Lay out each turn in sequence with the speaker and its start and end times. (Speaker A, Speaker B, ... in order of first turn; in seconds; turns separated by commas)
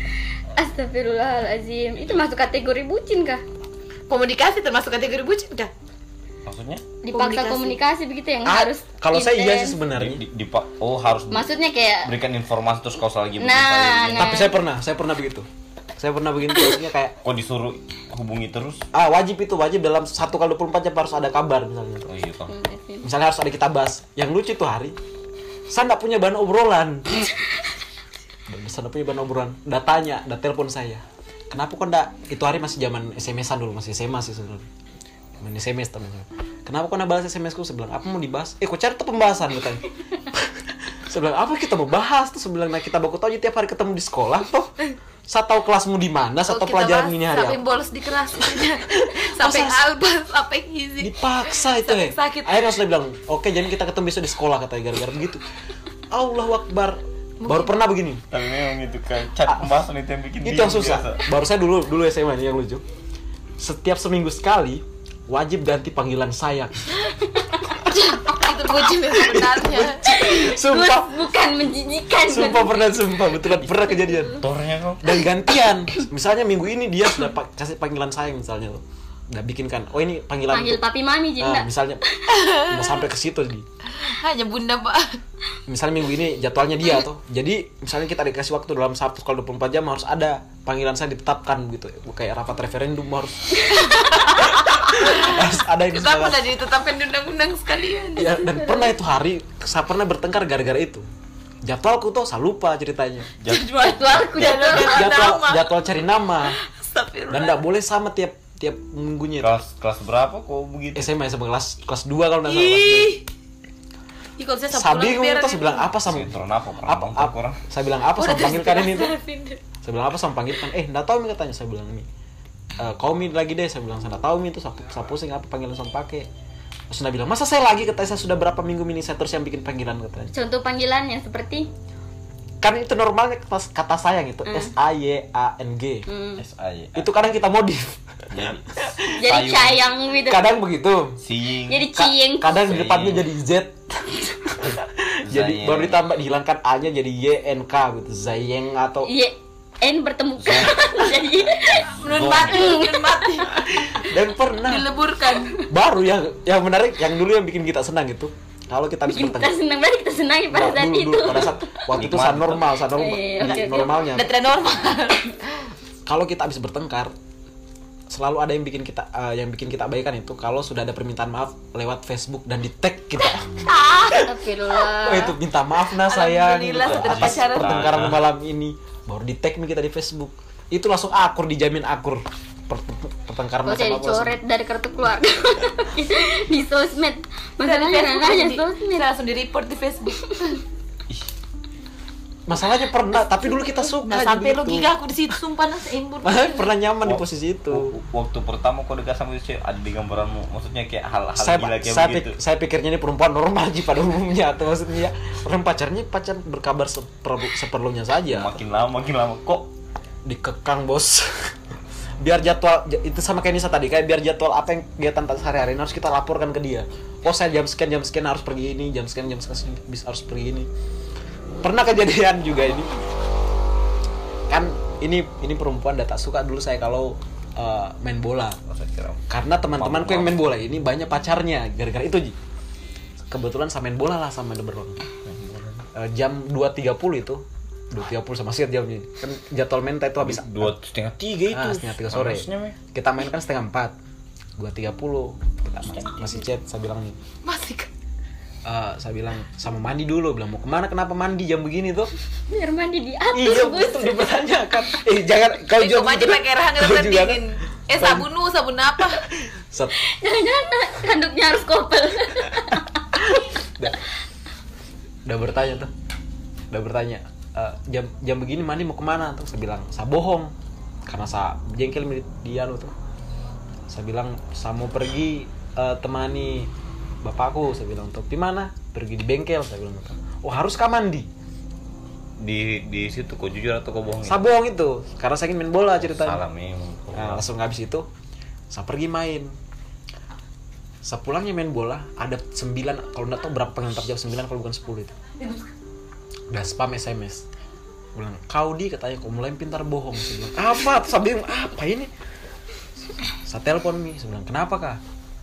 Speaker A: 0.6-3.4, Speaker B: 4.1-5.7, Speaker C: 6.5-6.9, Speaker A: 7.0-9.8, Speaker B: 7.1-7.8, Speaker D: 8.4-10.2, Speaker C: 9.9-11.5, Speaker A: 11.3-12.1, Speaker C: 12.0-14.5, Speaker A: 13.4-14.5, Speaker D: 14.2-17.2, Speaker C: 17.2-18.8, Speaker D: 18.9-22.1, Speaker C: 22.1-22.6, Speaker A: 22.5-23.1, Speaker D: 23.0-24.9, Speaker D: 25.7-27.3, Speaker D: 28.5-34.6, Speaker D: 35.4-44.7, Speaker D: 45.3-47.6, Speaker B: 46.5-52.6, Speaker D: 49.1-49.8, Speaker D: 51.0-55.4, Speaker D: 56.1-58.2, Speaker B: 57.4-57.8, Speaker C: 58.3-61.2, Speaker D: 60.4-62.8, Speaker D: 63.6-66.9, Speaker B: 67.8-70.1, Speaker D: 69.0-71.2, Speaker A: 70.1-73.1, Speaker D: 72.2-74.4, Speaker C: 74.4-75.2, Speaker D: 75.0-80.8, Speaker A: 80.5-81.7, Speaker D: 81.4-82.0, Speaker B: 82.3-83.0, Speaker D: 82.6-83.7, Speaker B: 83.9-85.2, Speaker D: 85.7-96.5, Speaker B: 93.7-98.5, Speaker D: 98.2-101.0, Speaker D: 101.6-103.3, Speaker C: 103.4-104.8, Speaker B: 103.5-105.8, Speaker A: 103.7-105.3, Speaker D: 104.7-106.6, Speaker B: 106.4-107.6, Speaker D: 107.3-109.6, Speaker C: 109.4-111.1, Speaker D: 110.9-113.2, Speaker B: 112.5-113.2, Speaker B: 114.4-115.9, Speaker D: 114.7-119.2, Speaker C: 116.0-117.6, Speaker B: 118.1-119.6, Speaker D: 119.8-122.0, Speaker D: 122.8-126.3, Speaker D: 126.9-130.3, Speaker A: 130.3-131.7, Speaker D: 132.6-136.1, Speaker A: 134.4-134.7, Speaker A: 136.1-136.4, Speaker C: 136.4-137.1, Speaker D: 136.9-139.0, Speaker C: 138.3-139.9, Speaker A: 139.1-140.5, Speaker D: 140.3-141.2, Speaker C: 141.2-141.9, Speaker A: 141.7-142.6, Speaker D: 141.9-149.1, Speaker C: 142.5-143.3, Speaker C: 145.2-146.1, Speaker A: 149.0-153.4, Speaker C: 150.4-152.8, Speaker B: 151.9-153.7, Speaker D: 153.6-154.9, Speaker B: 154.6-155.6, Speaker D: 155.7-159.5, Speaker A: 159.1-161.5, Speaker D: 160.5-164.3, Speaker C: 161.2-162.8, Speaker A: 162.9-164.1, Speaker B: 164.0-165.7, Speaker D: 166.1-167.1, Speaker D: 168.1-174.1, Speaker B: 173.2-174.3, Speaker A: 174.1-175.3, Speaker D: 175.0-184.3, Speaker B: 176.0-177.9, Speaker C: 176.8-178.3, Speaker A: 183.6-189.1, Speaker B: 187.6-190.6, Speaker D: 192.5-194.9, Speaker B: 193.6-196.7, Speaker D: 196.2-197.9, Speaker C: 197.0-202.3, Speaker D: 201.4-208.6, Speaker C: 208.3-209.7, Speaker D: 210.2-211.5, Speaker D: 212.2-220.7, Speaker D: 221.6-222.9, Speaker D: 224.5-228.6, Speaker C: 228.7-230.5, Speaker D: 229.3-232.3, Speaker D: 233.3-235.0, Speaker C: 235.2-235.8, Speaker D: 235.9-240.7, Speaker C: 240.2-242.8, Speaker D: 241.5-243.9, Speaker D: 244.6-247.2, Speaker C: 245.8-246.4, Speaker B: 247.4-247.9, Speaker D: 248.6-252.1, Speaker A: 252.5-254.3, Speaker D: 253.3-258.3, Speaker B: 255.8-259.2, Speaker D: 259.7-259.9, Speaker A: 260.0-262.9, Speaker D: 263.2-264.0, Speaker D: 265.2-265.9, Speaker D: 266.7-270.5, Speaker D: 271.1-272.9, Speaker D: 273.9-276.7, Speaker D: 277.2-281.3, Speaker C: 282.4-284.4, Speaker D: 284.2-286.4, Speaker C: 286.0-287.4, Speaker D: 287.1-288.1, Speaker D: 288.7-289.5, Speaker D: 291.0-295.1, Speaker D: 296.5-297.4, Speaker D: 298.1-302.1, Speaker D: 303.4-305.0